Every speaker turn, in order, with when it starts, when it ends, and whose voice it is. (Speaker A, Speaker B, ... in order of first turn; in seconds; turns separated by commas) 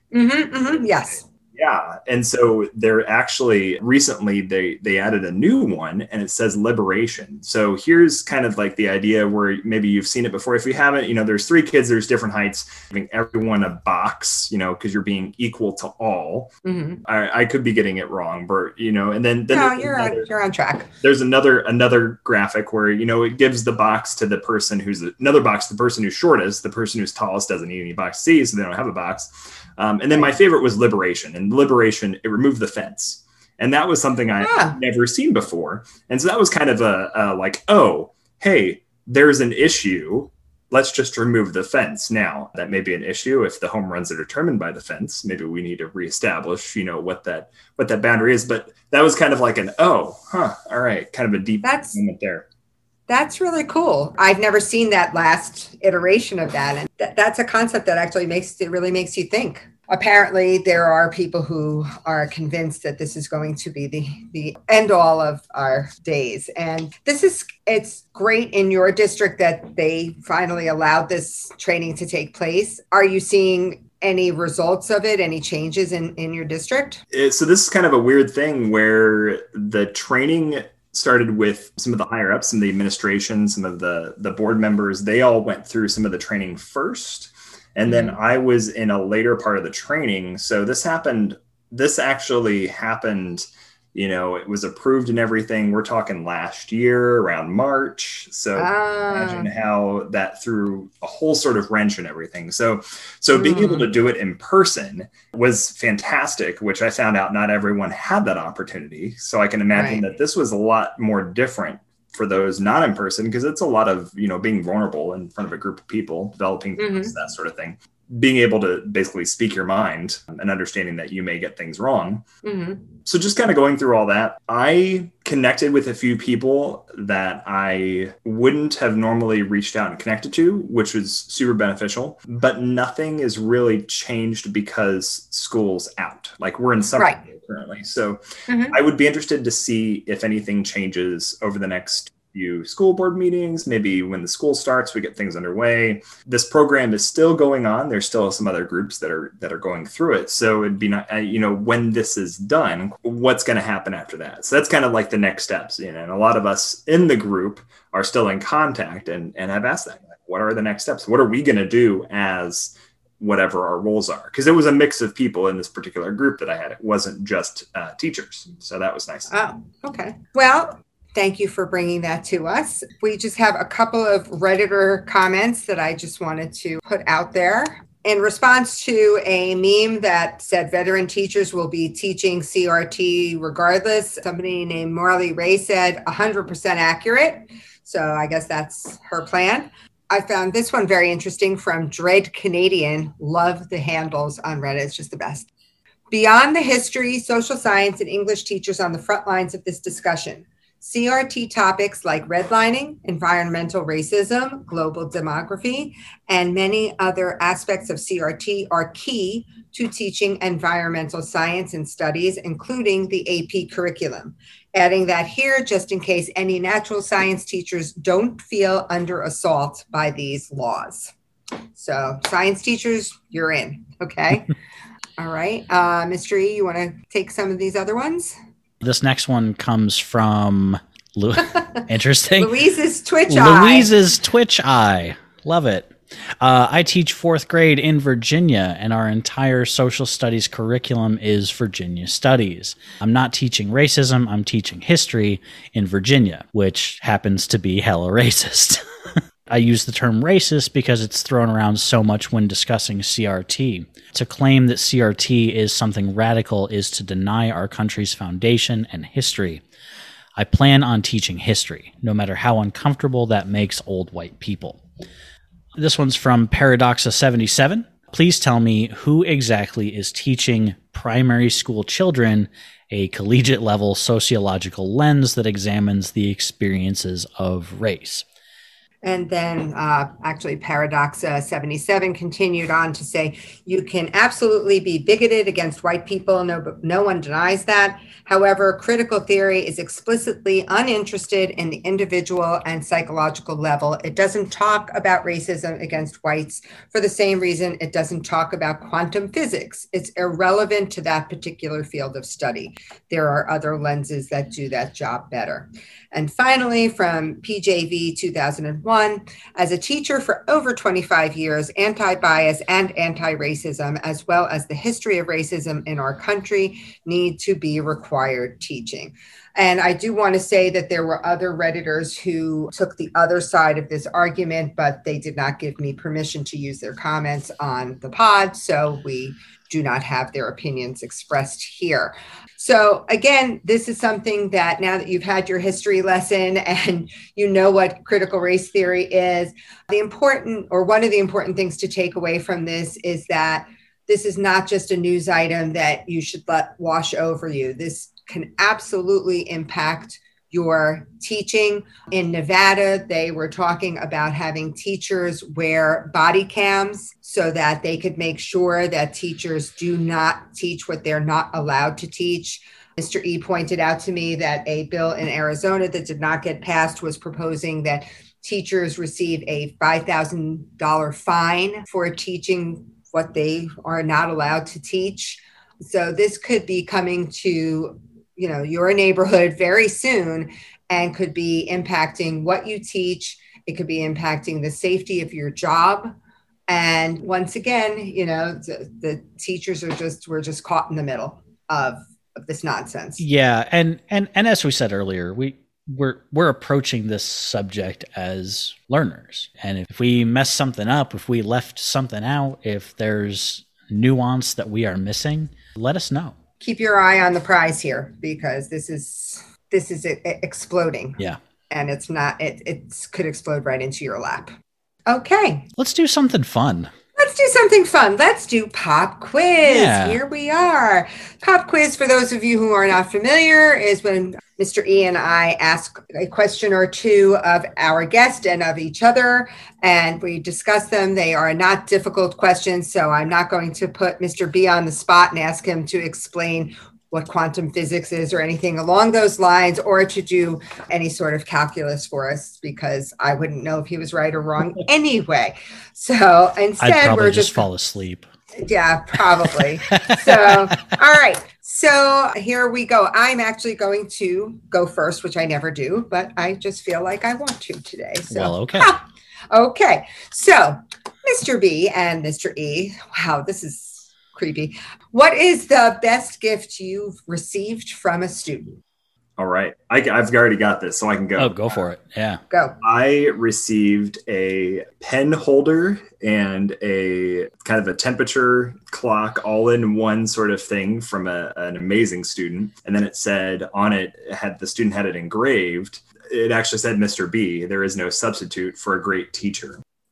Speaker A: 0.1-1.2, Speaker B: 1.5-20.3, Speaker A: 16.6-17.0, Speaker A: 19.5-20.9, Speaker B: 21.0-52.5, Speaker A: 34.4-34.8, Speaker A: 51.6-52.0, Speaker A: 53.1-77.0, Speaker B: 77.1-122.2, Speaker A: 87.9-88.2, Speaker A: 98.6-99.5, Speaker A: 103.3-103.9, Speaker A: 109.7-110.0, Speaker A: 116.8-117.1, Speaker A: 122.4-122.9, Speaker B: 123.0-138.2, Speaker A: 138.5-138.8, Speaker B: 138.7-169.3, Speaker A: 169.3-195.5, Speaker A: 196.1-221.1, Speaker A: 221.7-224.5, Speaker A: 225.2-228.3, Speaker C: 228.8-232.5, Speaker A: 232.4-233.9, Speaker C: 233.3-259.6, Speaker C: 260.4-264.8, Speaker C: 265.8-278.2, Speaker A: 279.0-386.1, Speaker A: 386.7-393.2, Speaker C: 393.2-406.4, Speaker A: 406.6-411.2, Speaker A: 411.7-414.5, Speaker A: 415.1-415.7, Speaker C: 415.8-416.9, Speaker A: 417.2-447.6, Speaker C: 419.6-420.2, Speaker C: 446.8-448.2, Speaker A: 448.6-468.8, Speaker C: 449.8-450.7, Speaker C: 458.3-458.9, Speaker B: 469.4-471.8, Speaker C: 471.4-472.4, Speaker A: 472.5-472.8, Speaker B: 472.8-489.8